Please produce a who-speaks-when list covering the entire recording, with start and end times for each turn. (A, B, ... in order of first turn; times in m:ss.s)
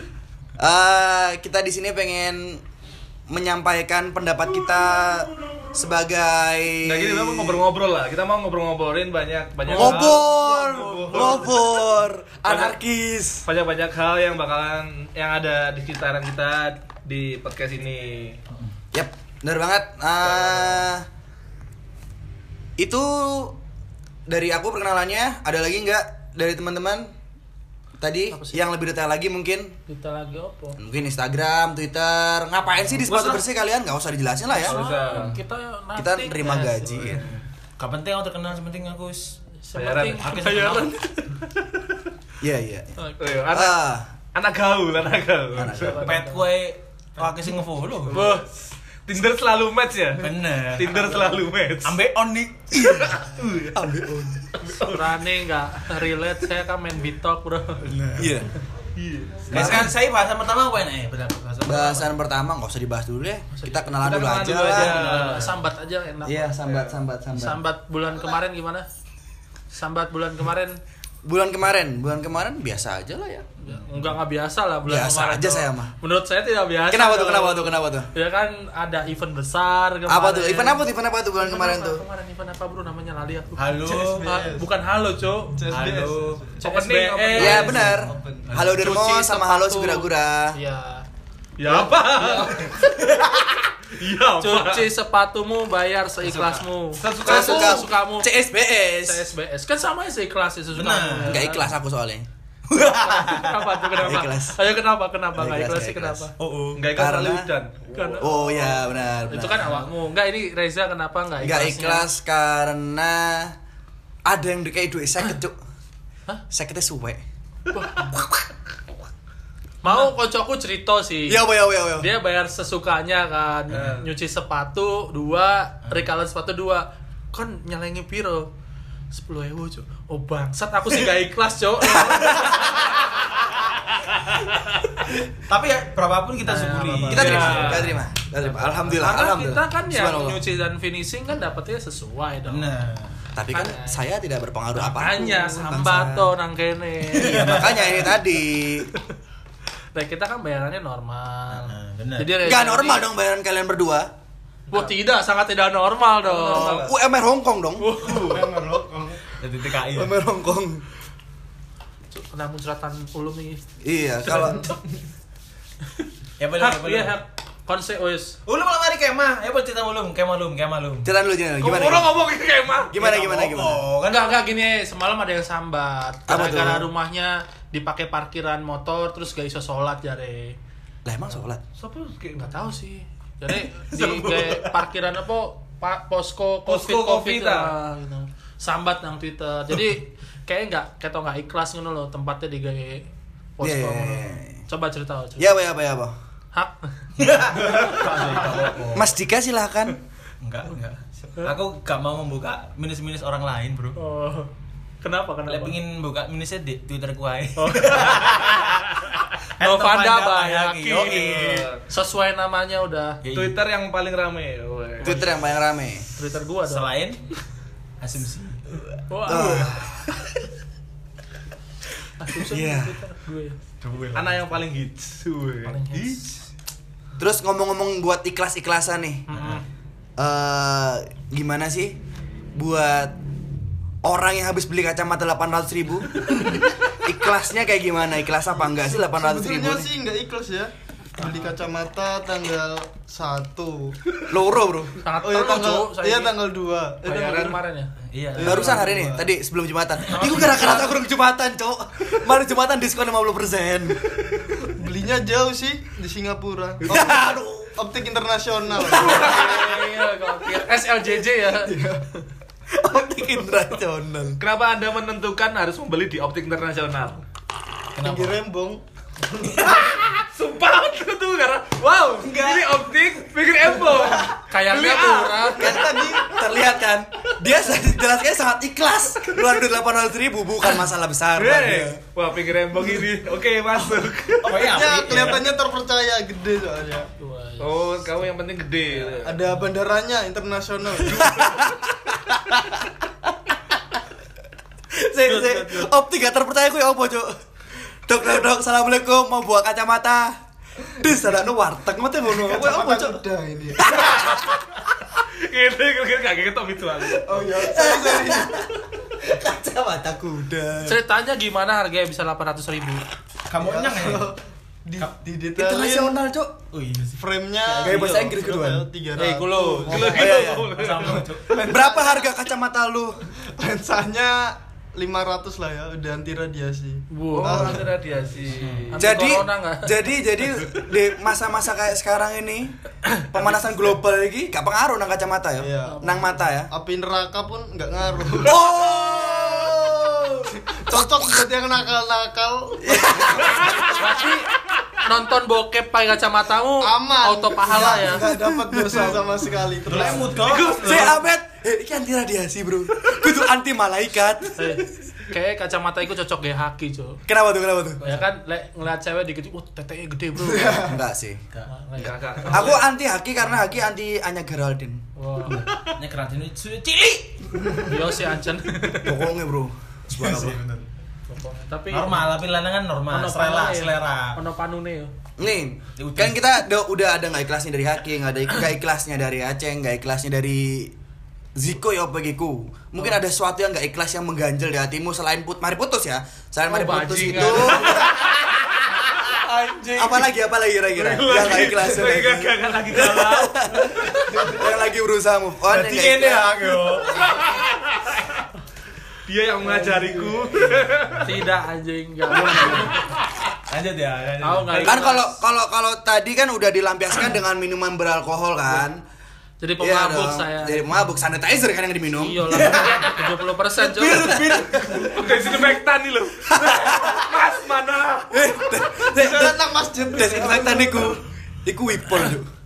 0:00.6-0:02.6 A
0:03.3-0:07.6 A
0:06.8-0:10.2 B
0:09.6-0:11.6 C
0:09.7-0:13.4 A
0:11.1-0:11.4 B
0:12.5-0:12.8 B
0:13.4-0:18.4 B
0:18.9-0:21.0 A
0:22.8-0:23.6 A
0:24.3-0:27.1 A
0:28.0-0:29.7 A
0:28.3-0:28.6 C
0:29.9-0:30.8 C
0:30.8-0:34.8 A
0:33.0-0:33.4 D
0:34.5-0:37.2 C
0:34.6-0:35.4 B
0:36.0-0:37.2 A
0:37.2-0:39.4 D
0:39.6-0:41.4 C
0:39.7-0:40.3 B
0:40.2-0:41.0 D
0:42.4-0:43.0 A
0:43.0-0:43.4 C
0:43.2-0:43.8 B
0:43.5-0:44.1 A
0:44.3-0:46.2 B
0:45.5-0:46.1 A
0:45.7-0:46.5 C
0:46.0-0:48.2 D
0:48.1-0:48.5 B
0:48.1-0:48.5 C
0:49.0-0:52.0 B
0:50.2-0:53.2 D
0:52.7-0:53.8 B
0:53.7-0:54.5 A
0:54.6-0:57.9 C
0:54.7-0:55.1 B
0:57.9-0:58.2 D
0:58.2-0:58.5 A
0:59.0-0:59.9 B
0:59.5-0:59.9 A
0:59.5-1:02.1 D
1:01.6-1:05.0 A
1:03.5-1:04.0 C
1:04.0-1:05.5 B
1:04.7-1:05.6 D
1:04.9-1:06.6 C
1:06.2-1:07.6 A
1:06.7-1:06.9 B
1:07.3-1:08.8 C
1:09.7-1:10.8 C
1:11.2-1:13.4 A
1:13.6-1:20.8 C
1:13.7-1:14.2 D
1:14.8-1:15.9 A
1:16.9-1:18.1 A
1:20.1-1:22.0 A
1:21.4-1:25.6 C
1:23.6-1:24.3 D
1:23.8-1:24.7 E
1:25.5-1:26.6 E
1:25.7-1:26.4 D
1:26.6-1:27.8 B
1:26.6-1:27.9 C
1:27.3-1:30.6 A
1:27.8-1:28.6 E
1:28.5-1:28.9 D
1:28.8-1:31.0 C
1:31.6-1:32.6 B
1:32.3-1:32.7 C
1:33.2-1:34.8 B
1:34.4-1:38.3 C
1:36.3-1:36.6 D
1:37.0-1:37.8 B
1:37.2-1:39.2 A
1:39.0-1:41.7 C
1:40.7-1:41.4 D
1:41.2-1:42.2 A
1:42.7-1:43.9 D
1:42.8-1:46.3 C
1:44.0-1:44.6 A
1:45.3-1:46.2 A
1:46.4-1:46.8 D
1:46.7-1:47.9 B
1:46.9-1:47.5 A
1:47.9-1:52.1 C
1:48.2-1:49.7 A
1:49.6-1:49.9 D
1:51.4-1:53.5 A
1:54.2-1:55.6 A
1:56.5-1:57.2 A
1:57.7-1:58.1 C
1:59.8-2:01.4 C
2:01.3-2:02.1 A
2:02.0-2:08.5 C
2:03.7-2:04.0 D
2:03.8-2:04.1 B
2:09.1-2:13.0 C
2:11.8-2:12.7 A
2:15.3-2:18.0 D
2:16.4-2:17.8 C
2:17.0-2:20.4 A
2:17.4-2:17.9 B
2:18.4-2:22.7 C
2:22.5-2:23.3 D
2:23.3-2:26.3 A
2:23.5-2:24.0 C
2:24.7-2:27.9 C
2:27.1-2:28.1 D
2:27.2-2:28.9 A
2:29.9-2:33.1 C
2:31.5-2:32.4 D
2:32.4-2:34.1 A
2:34.7-2:36.9 C
2:36.2-2:36.9 B
2:36.5-2:37.9 A
2:37.8-2:38.4 C
2:37.9-2:40.1 D
2:39.9-2:40.8 A
2:42.1-2:43.6 C
2:43.8-2:44.6 A
2:44.2-2:44.8 C
2:46.4-2:47.2 D
2:46.6-2:48.4 C
2:48.4-2:51.1 D
2:51.0-2:52.1 A
2:51.6-2:53.0 B
2:52.9-2:53.8 A
2:53.0-2:54.4 D
2:54.0-3:00.6 C
2:56.3-2:56.9 A
3:01.0-3:01.6 A
3:01.8-3:02.7 B
3:02.3-3:13.1 C
3:03.9-3:04.8 D
3:06.7-3:07.7 B
3:13.6-3:15.5 C
3:13.6-3:14.6 A
3:15.4-3:16.1 A
3:16.5-3:18.6 C
3:17.2-3:19.1 D
3:18.9-3:20.0 A
3:20.4-3:24.0 D
3:23.9-3:25.8 C
3:25.5-3:28.9 D
3:27.6-3:28.6 C
3:29.6-3:33.2 C
3:29.6-3:31.4 D
3:31.0-3:31.8 B
3:33.2-3:33.6 D
3:33.3-3:35.1 B
3:35.0-3:35.3 C
3:35.0-3:36.0 A
3:36.1-3:36.9 C
3:36.6-3:37.2 D
3:38.0-3:38.7 D
3:39.1-3:39.9 C
3:39.3-3:40.1 A
3:42.2-3:43.6 C
3:42.4-3:43.0 A
3:43.8-3:44.6 D
3:44.1-3:46.2 B
3:45.6-3:46.3 C
3:47.2-3:49.2 A
3:49.3-3:49.6 C
3:49.3-3:49.6 D
3:50.2-3:52.0 A
3:52.5-3:53.2 A
3:54.0-3:56.3 A
3:57.0-3:59.9 A
3:58.7-4:04.0 E
4:01.2-4:01.5 C
4:04.3-4:05.0 A
4:05.0-4:06.4 C
4:05.2-4:07.4 E
4:07.0-4:07.9 C
4:07.1-4:07.6 B
4:08.1-4:08.8 D
4:08.3-4:09.3 E
4:08.4-4:14.0 A
4:10.0-4:10.9 D
4:14.5-4:17.2 E
4:16.8-4:17.3 B
4:16.9-4:17.8 A
4:17.8-4:19.8 E
4:18.8-4:19.7 B
4:18.9-4:21.7 C
4:21.5-4:22.0 E
4:22.8-4:24.4 A
4:24.4-4:27.2 B
4:28.0-4:28.4 D
4:28.0-4:28.8 E
4:29.6-4:36.6 B
4:32.2-4:32.8 D
4:34.5-4:35.8 C
4:35.6-4:42.0 A
4:41.4-4:44.7 B
4:44.4-4:45.5 D
4:44.6-4:47.1 E
4:47.2-4:47.8 C
4:47.6-4:49.4 B
4:49.2-4:51.3 E
4:51.0-4:52.9 A
4:51.3-4:51.6 B
4:54.9-4:57.3 A
4:55.3-4:55.7 D
4:58.1-5:00.4 A
5:01.0-5:03.2 A
5:02.2-5:03.8 E
5:03.8-5:04.5 A
5:03.9-5:07.4 B
5:07.2-5:08.6 E
5:07.4-5:11.0 A
5:10.8-5:13.0 C
5:13.5-5:14.3 D
5:13.5-5:16.2 E
5:15.6-5:16.5 A
5:16.7-5:18.1 D
5:17.1-5:20.6 E
5:17.8-5:18.9 A
5:17.9-5:18.3 B
5:19.2-5:19.8 C
5:19.4-5:21.3 B
5:19.9-5:20.7 A
5:20.7-5:21.6 D
5:21.4-5:22.3 E
5:21.6-5:23.2 A
5:23.4-5:27.9 E
5:27.1-5:27.8 C
5:27.4-5:29.1 B
5:28.5-5:29.0 D
5:28.9-5:30.0 C
5:29.0-5:36.7 A
5:35.6-5:36.1 E
5:35.8-5:36.4 C
5:36.7-5:43.9 E
5:38.4-5:40.3 A
5:42.8-5:44.2 A
5:43.9-5:48.2 C
5:46.8-5:50.7 E
5:48.0-5:49.2 A
5:49.8-5:51.2 D
5:50.5-5:54.8 A
5:54.6-5:57.2 C
5:57.2-5:58.0 A
5:58.0-5:58.3 D
5:58.0-6:00.9 C
6:00.4-6:00.9 E
6:00.8-6:01.4 A
6:01.7-6:02.1 C
6:02.0-6:02.8 B
6:02.0-6:05.0 A
6:05.2-6:05.6 C
6:05.4-6:07.8 D
6:07.8-6:09.2 C
6:09.0-6:10.6 A
6:10.2-6:10.8 D
6:11.3-6:12.3 C
6:11.9-6:14.4 D
6:13.1-6:15.1 C
6:15.4-6:20.9 A
6:16.0-6:16.4 D
6:21.5-6:28.1 A
6:26.7-6:28.1 C
6:27.8-6:28.1 B
6:29.5-6:30.0 D
6:29.9-6:36.5 A
6:31.0-6:33.6 B
6:33.8-6:34.6 D
6:35.7-6:37.4 D
6:39.2-6:41.3 B
6:41.2-6:43.1 C
6:43.7-6:45.0 D
6:44.4-6:45.4 C
6:44.8-6:49.0 A
6:49.6-6:51.0 C
6:49.8-6:52.6 A
6:52.2-6:54.4 C
6:52.5-6:55.8 D
6:54.1-6:55.0 A
6:55.0-6:58.5 B
6:56.5-6:57.3 A
6:58.3-7:02.5 A
6:59.0-7:01.2 E